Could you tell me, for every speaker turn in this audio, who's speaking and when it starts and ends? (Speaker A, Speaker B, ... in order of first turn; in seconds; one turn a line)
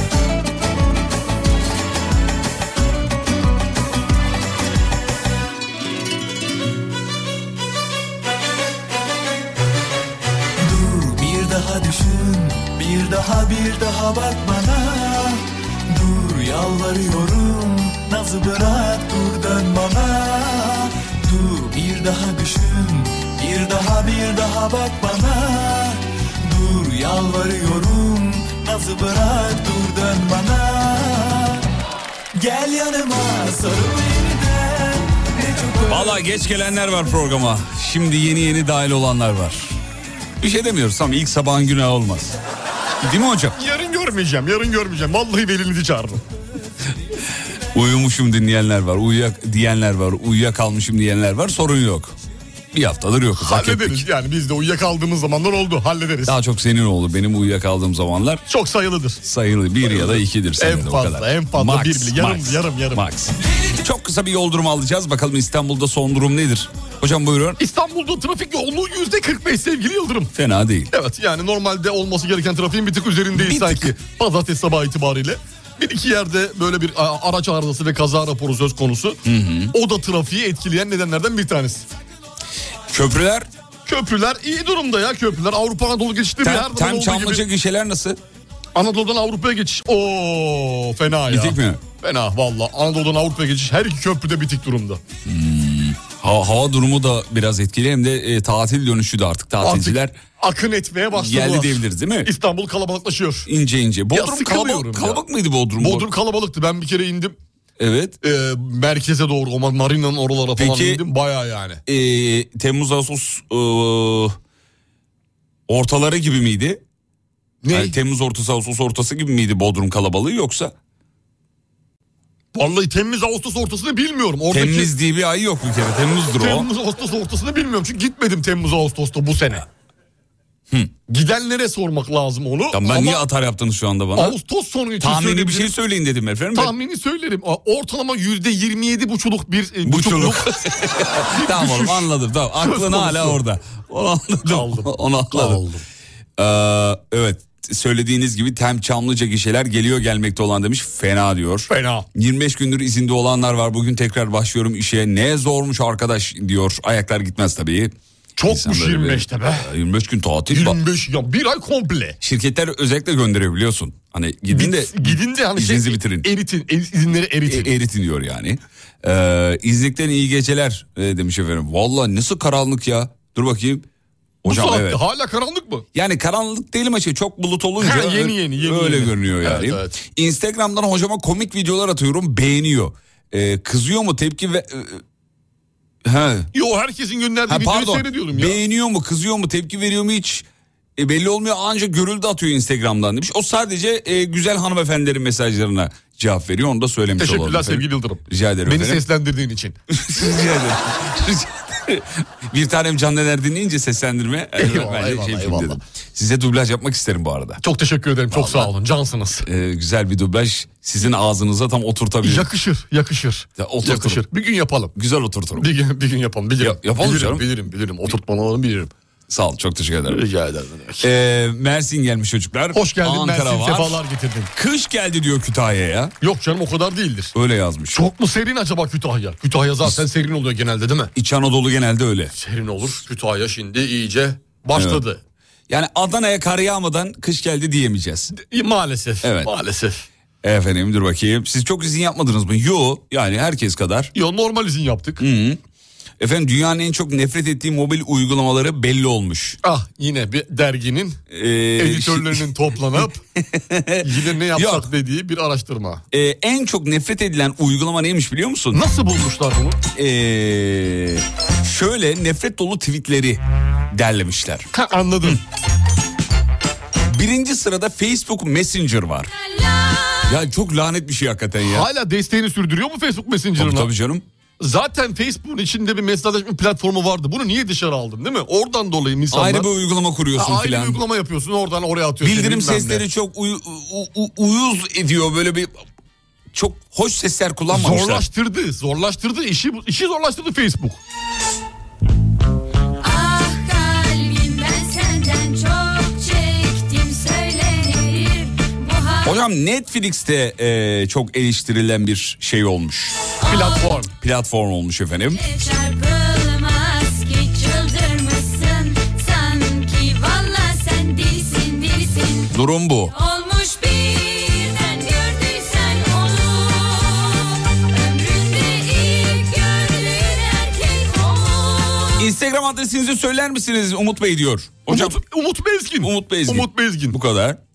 Speaker A: 10.6-31.6
Speaker A: 32.3-36.2
Speaker B: 35.9-39.8
Speaker B: 40.4-42.4
Speaker B: 43.0-43.5
Speaker C: 43.5-46.2
Speaker B: 47.7-52.1
Speaker B: 52.7-54.0
Speaker C: 53.4-56.4
Speaker B: 56.2-58.4
Speaker C: 58.5-59.2
Speaker B: 59.2-67.6
Speaker C: 59.8-63.1
Speaker C: 67.6-70.3
Speaker B: 70.3-70.9
Speaker C: 70.9-79.2
Speaker B: 73.3-73.9
Speaker B: 79.2-79.7
Speaker C: 79.7-81.8
Speaker B: 82.9-83.5
Speaker C: 83.8-87.4
Speaker B: 86.4-88.2
Speaker C: 88.7-95.0
Speaker B: 91.3-91.8
Speaker B: 95.2-100.2
Speaker C: 99.6-103.5
Speaker B: 101.1-102.3
Speaker B: 103.5-106.1
Speaker C: 104.1-105.2
Speaker C: 105.8-107.3
Speaker B: 107.8-108.1
Speaker C: 108.2-111.8
Speaker B: 110.6-111.0
Speaker B: 111.8-114.3
Speaker B: 115.7-116.8
Speaker C: 117.6-117.9
Speaker B: 117.7-120.7
Speaker C: 122.5-124.9
Speaker B: 124.5-126.7
Speaker C: 126.3-129.7
Speaker C: 131.1-133.2
Speaker B: 132.7-134.3
Speaker C: 134.2-135.7
Speaker B: 135.0-136.7
Speaker C: 136.5-140.6
Speaker B: 139.8-145.6
Speaker C: 141.3-143.4
Speaker C: 144.5-145.8
Speaker B: 146.4-157.9
Speaker C: 151.7-152.1
Speaker C: 158.4-159.7
Speaker B: 158.5-160.8
Speaker C: 160.5-162.2
Speaker B: 162.2-166.3
Speaker C: 164.5-167.7
Speaker B: 167.5-173.8
Speaker B: 174.4-175.0
Speaker C: 174.5-175.8
Speaker B: 175.9-185.0
Speaker C: 177.8-179.9
Speaker B: 186.0-186.5
Speaker C: 186.5-188.6
Speaker B: 187.5-190.4
Speaker B: 191.0-199.0
Speaker C: 197.2-199.8
Speaker B: 199.9-207.6
Speaker C: 204.6-205.8
Speaker C: 207.6-209.4
Speaker B: 208.3-208.7
Speaker B: 209.4-212.5
Speaker C: 212.2-214.9
Speaker B: 213.6-214.2
Speaker B: 214.9-215.7
Speaker C: 215.6-218.9
Speaker B: 216.6-217.4
Speaker B: 219.3-220.2
Speaker C: 220.1-221.1
Speaker B: 221.0-224.0
Speaker C: 222.7-224.5
Speaker B: 224.6-226.1
Speaker C: 226.2-227.3
Speaker B: 227.3-228.0
Speaker C: 227.9-231.1
Speaker B: 231.1-232.3
Speaker C: 232.3-235.2
Speaker B: 234.7-235.0
Speaker B: 235.7-238.3
Speaker C: 238.3-240.0
Speaker B: 239.2-239.5
Speaker B: 240.4-244.1
Speaker C: 244.1-245.2
Speaker B: 245.2-245.6
Speaker B: 246.2-249.6
Speaker C: 249.6-251.2
Speaker B: 251.3-252.4
Speaker C: 251.8-253.2
Speaker B: 253.0-254.9
Speaker C: 254.0-256.0
Speaker B: 256.1-258.8
Speaker C: 258.7-259.8
Speaker B: 259.9-264.7
Speaker C: 264.7-265.4
Speaker B: 267.1-269.3
Speaker D: 269.4-270.3
Speaker B: 270.3-271.9
Speaker C: 271.6-273.9
Speaker B: 273.6-274.2
Speaker C: 274.6-279.7
Speaker B: 279.3-281.0
Speaker C: 280.3-283.0
Speaker B: 282.2-285.8
Speaker B: 286.5-288.2
Speaker C: 287.7-291.0
Speaker D: 293.0-299.4
Speaker B: 299.2-303.1
Speaker D: 303.4-304.0
Speaker C: 303.5-304.1
Speaker B: 304.2-305.4
Speaker D: 305.3-312.5
Speaker B: 312.5-313.1
Speaker D: 313.1-322.3
Speaker B: 322.2-325.2
Speaker C: 324.9-327.2
Speaker B: 326.0-327.6